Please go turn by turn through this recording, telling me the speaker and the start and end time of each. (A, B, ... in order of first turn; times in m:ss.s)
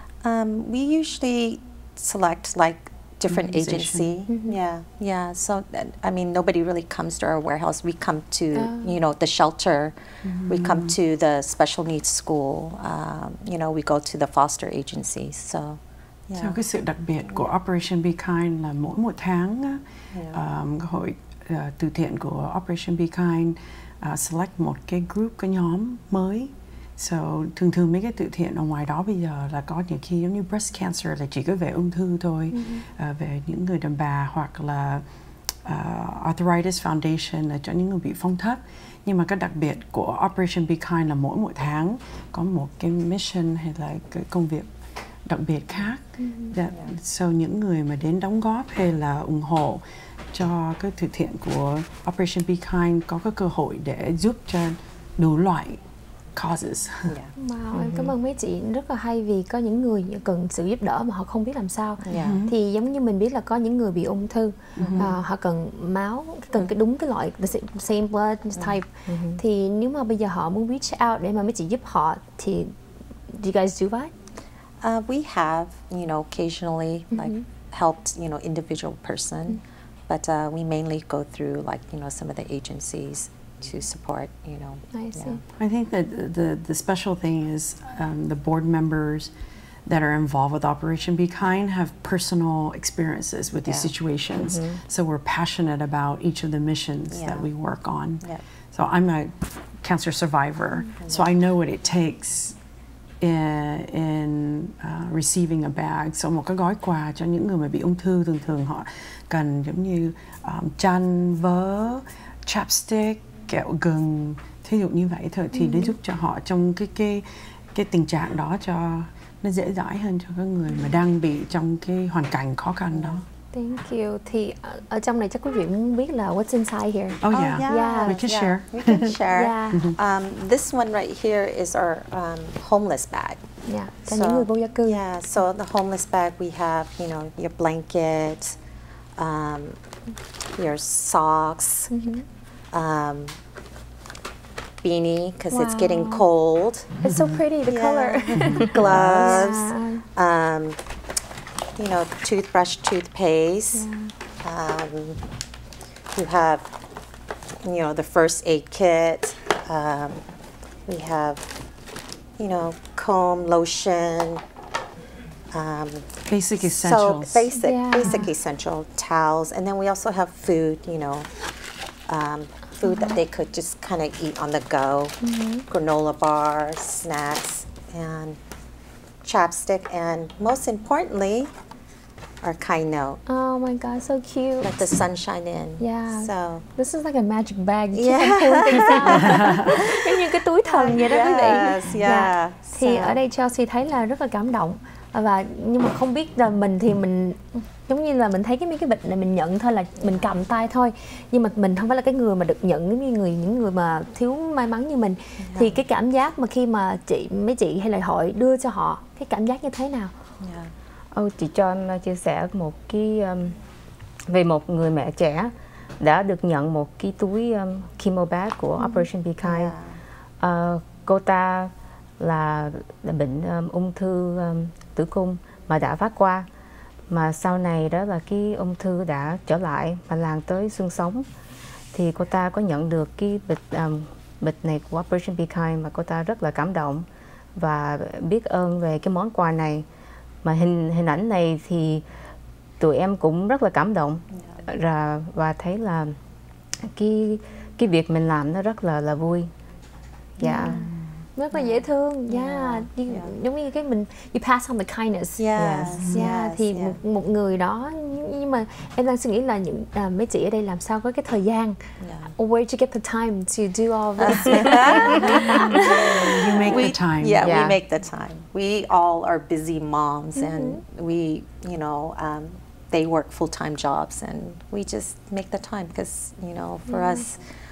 0:00.2-0:10.0 A
0:03.3-0:04.2 B
0:04.3-0:04.6 C
0:08.5-0:09.0 C
0:10.2-0:11.0 B
0:10.5-0:16.6 A
0:16.4-0:35.0 B
0:20.1-0:20.4 A
0:32.5-0:32.9 C
0:35.7-0:44.7 B
0:45.3-0:55.8 B
0:46.2-0:46.6 C
0:56.4-0:57.2 B
0:57.4-1:12.7 C
1:02.0-1:02.4 A
1:02.1-1:02.6 B
1:04.8-1:05.2 B
1:09.1-1:09.4 D
1:13.3-1:14.1 C
1:14.8-1:25.4 A
1:17.1-1:17.4 C
1:24.9-1:25.4 C
1:25.6-1:29.3 B
1:29.9-1:42.6 B
1:33.6-1:33.9 A
1:34.3-1:34.8 D
1:37.1-1:37.5 A
1:41.0-1:41.4 A
1:43.2-2:03.2 B
1:55.5-1:56.0 C
2:02.9-2:03.2 A
2:03.5-2:08.2 C
2:07.2-2:09.2 B
2:07.3-2:13.4 A
2:09.3-2:09.9 C
2:09.7-2:10.0 B
2:13.7-2:15.0 C
2:14.1-2:18.6 A
2:19.2-2:19.8 A
2:20.6-2:21.9 A
2:21.9-2:22.2 C
2:22.7-2:23.4 A
2:24.8-2:27.0 A
2:25.5-2:26.3 C
2:27.0-2:30.0 C
2:27.0-2:27.4 B
2:27.6-2:30.8 A
2:28.4-2:29.2 B
2:31.8-2:33.9 A
2:33.7-2:34.1 C
2:34.4-2:35.2 A
2:36.1-2:36.7 A
2:37.6-2:40.2 A
2:40.9-2:41.5 A
2:42.4-2:44.4 A
2:45.5-2:51.3 A
2:46.3-2:47.5 B
2:47.5-2:48.3 C
2:52.1-2:58.4 A
2:52.8-2:53.2 C
2:55.2-2:55.7 C
2:59.2-3:01.5 A
3:02.4-3:03.2 A
3:03.3-3:04.9 C
3:04.6-3:06.6 A
3:05.8-3:30.1 C
3:07.9-3:13.2 A
3:09.2-3:09.5 B
3:25.4-3:25.8 A
3:30.4-3:30.7 A
3:31.1-3:33.6 D
3:34.3-3:39.7 D
3:38.8-3:39.1 C
3:39.4-3:40.0 A
3:40.4-3:46.5 D
3:47.1-3:51.3 D
3:51.9-3:59.8 D
4:00.4-4:02.0 D
4:02.8-4:06.2 D
4:04.3-4:04.6 A
4:06.8-4:09.5 D
4:10.4-4:10.8 D
4:10.4-4:15.5 C
4:10.6-4:11.1 B
4:11.5-4:13.3 A
4:15.4-4:17.0 A
4:15.6-4:16.1 D
4:16.0-4:16.3 B
4:16.0-4:21.8 C
4:22.0-4:22.4 A
4:22.4-4:26.3 C
4:24.2-4:37.4 A
4:25.3-4:27.5 B
4:27.4-4:27.8 D
4:30.4-4:30.8 C
4:36.9-4:37.2 C